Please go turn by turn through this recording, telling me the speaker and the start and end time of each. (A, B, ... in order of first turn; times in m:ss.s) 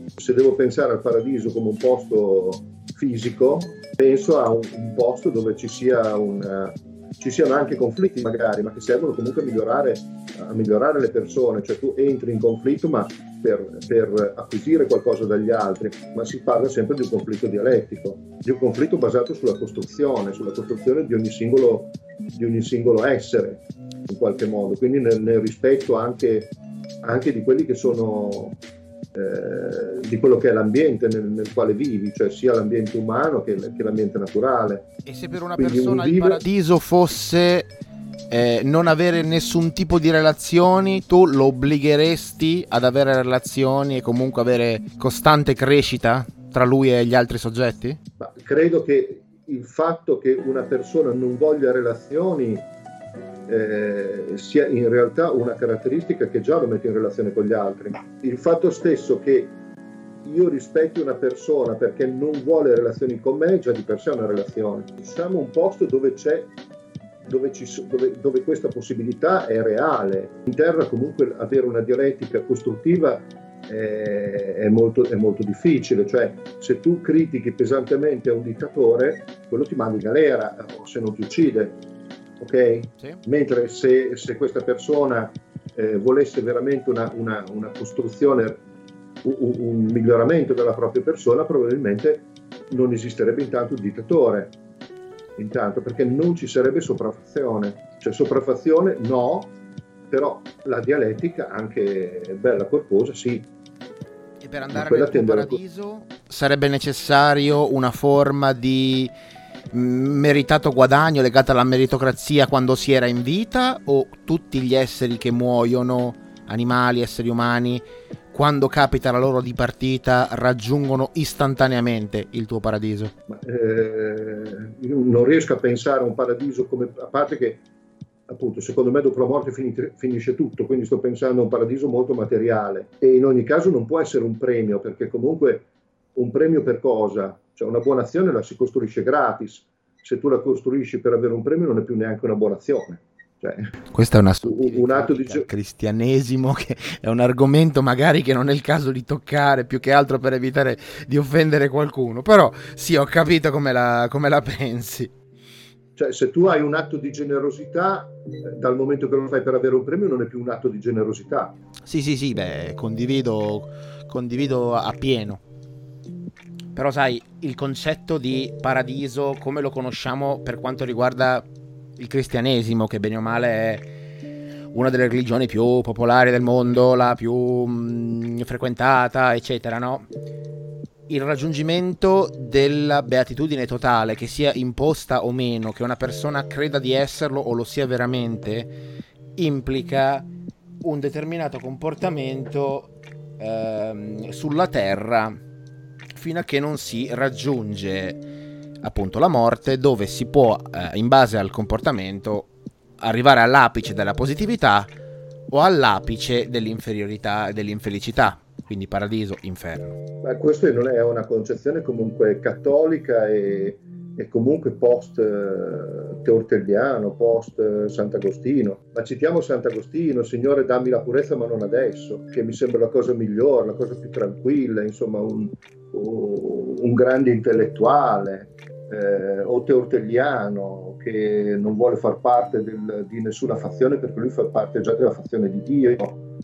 0:00.2-0:28.6 A
0:29.1-0:34.9 A
0:35.1-0:37.7 B
0:35.6-0:36.4 A
0:38.3-0:48.0 B
0:48.2-0:52.6 A
0:53.5-0:59.6 A
1:00.2-1:06.5 A
1:07.2-1:21.8 A
1:22.4-1:28.6 A
1:29.2-1:34.6 A
1:35.4-1:39.5 A
1:40.1-1:43.5 A
1:44.4-1:49.1 B
1:44.7-1:45.6 A
1:49.7-2:03.1 B
2:03.3-2:07.6 A
2:08.3-2:23.7 A
2:23.9-2:35.1 B
2:24.4-2:25.5 A
2:36.0-2:41.5 A
2:41.9-2:45.4 B
2:46.8-2:53.9 B
2:54.7-3:00.1 B
3:01.1-3:08.8 B
3:09.4-3:10.3 B
3:10.8-3:15.4 B
3:16.1-3:18.2 B
3:18.8-3:22.5 B
3:23.0-3:24.9 B
3:25.5-3:30.0 B
3:30.2-3:56.2 A